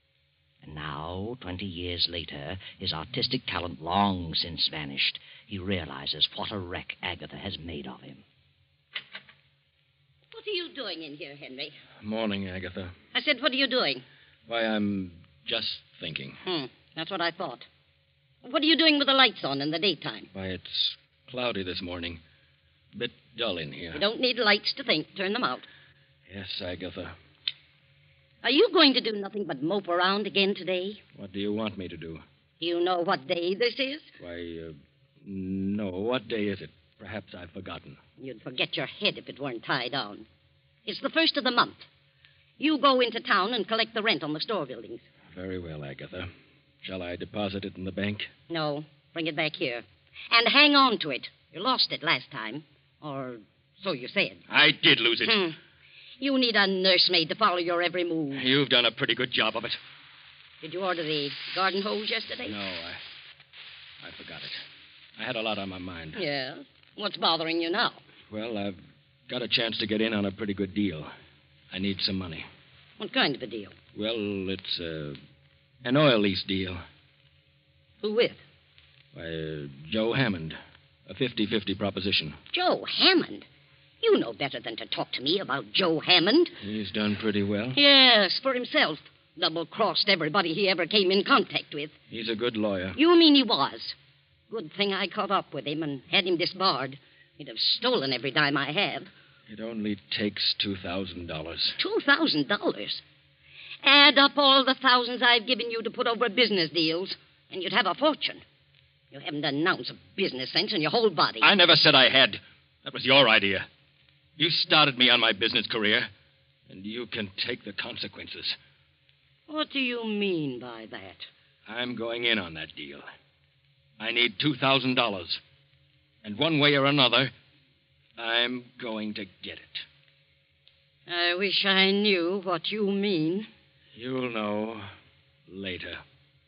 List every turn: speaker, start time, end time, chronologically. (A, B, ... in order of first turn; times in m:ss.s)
0:00.6-0:08.2 A
0:10.3-0:11.8 B
0:12.0-0:12.9 C
0:13.1-0:14.0 B
0:14.5-0:16.4 C
0:16.4-0:17.7 B
0:18.4-0:20.3 B
0:20.3-0:22.2 C
0:22.9-0:24.0 C
0:23.9-0:25.7 B
0:26.3-0:27.1 C
0:28.4-0:31.0 B
0:31.1-0:32.2 C
0:32.6-0:34.1 B
0:34.2-0:38.0 C
0:38.2-0:40.2 B
0:40.8-0:41.8 B
0:42.6-0:45.0 B
0:45.3-0:46.3 C
0:46.8-0:48.3 C
0:48.5-0:54.4 B
0:54.5-0:55.4 C
0:55.2-0:55.6 B
0:56.2-0:58.4 B
0:58.3-0:59.8 C
1:00.6-1:02.5 B
1:02.4-1:03.0 C
1:04.0-1:04.6 C
1:05.2-1:06.2 C
1:06.1-1:08.0 B
1:08.3-1:11.1 C
1:11.7-1:12.4 C
1:13.0-1:13.8 B
1:13.9-1:15.2 C
1:15.8-1:16.8 C
1:18.0-1:18.4 B
1:19.1-1:22.4 C
1:22.5-1:23.4 B
1:24.0-1:26.5 B
1:26.6-1:27.8 C
1:27.8-1:31.9 B
1:32.1-1:33.0 C
1:33.0-1:33.9 B
1:34.5-1:39.1 B
1:39.5-1:41.8 C
1:41.8-1:43.0 B
1:43.8-1:48.4 B
1:49.1-1:51.5 B
1:51.4-1:53.7 C
1:54.4-1:56.1 C
1:56.7-1:58.6 C
1:59.5-2:01.3 B
2:01.7-2:03.0 C
2:04.0-2:05.4 C
2:06.2-2:07.3 C
2:08.2-2:09.8 C
2:11.1-2:13.5 B
2:13.9-2:14.9 C
2:15.5-2:16.0 C